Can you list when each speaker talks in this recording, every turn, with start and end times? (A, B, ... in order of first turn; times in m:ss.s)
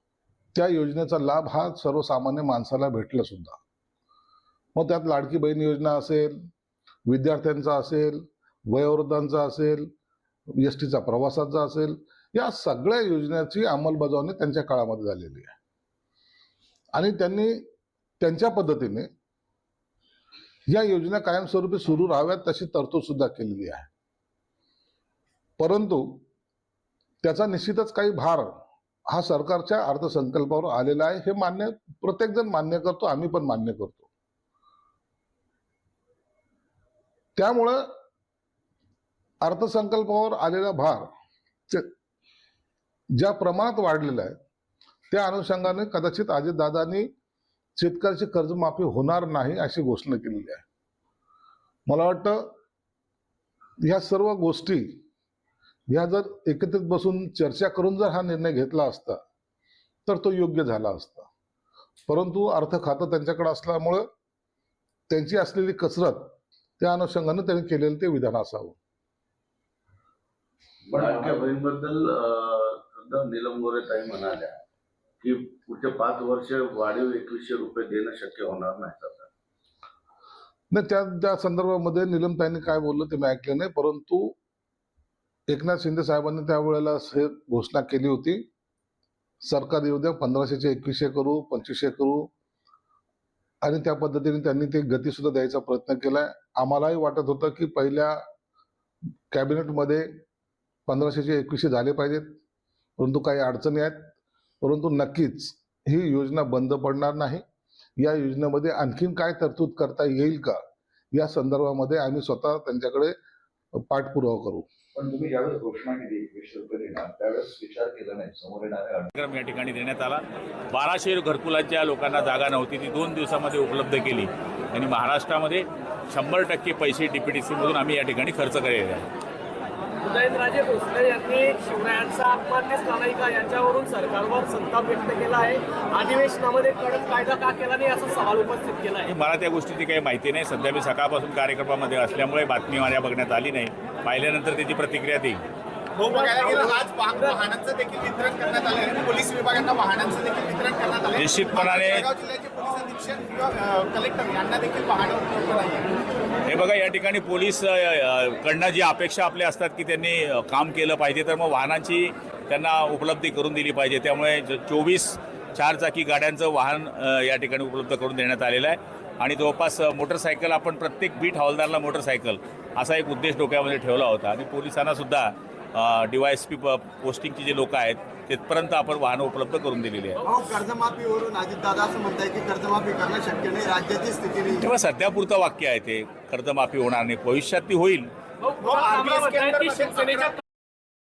0:00.5-0:03.6 A
0:04.8-0:06.4 A
0:07.1-0:09.9 A
0:10.6-0:15.6 A
0:16.9-0:17.6 A
0:18.2-0:19.1 A
0:20.7-0:23.9 A
0:25.6-0:26.2 A
0:27.2-0:28.5 A
0:29.1-0:34.1 A
0:37.4-0:37.9 A
0:39.4-0:41.1 A
0:43.2-0:44.4 A
0:45.1-0:47.1 A
0:47.8-0:50.6 A
0:51.9-0:52.5 A
0:53.8-0:54.9 A
0:55.9-0:59.2 A
1:00.1-1:01.3 A
1:02.1-1:04.1 A
1:05.1-1:06.3 A
1:06.8-1:08.8 A
1:10.9-1:14.6 B
1:11.0-1:11.5 C
1:15.2-1:19.3 B
1:20.7-1:24.3 A
1:25.5-1:28.4 A
1:29.4-1:32.3 A
1:33.6-1:38.2 A
1:39.3-1:40.1 A
1:40.9-1:42.3 A
1:43.0-1:44.1 A
1:44.6-1:47.4 A
1:48.0-1:50.6 A
1:51.1-1:53.2 A
1:53.9-1:54.7 A
1:55.0-1:59.1 C
1:59.2-2:09.1 D
2:10.0-2:19.1 E
2:19.1-2:25.4 D
2:26.0-2:35.9 F
2:26.0-2:27.4 E
2:31.2-2:32.1 D
2:36.5-3:00.2 D
3:00.2-3:04.7 G
3:04.6-3:08.1 D
3:08.4-3:10.4 E
3:08.6-3:10.3 F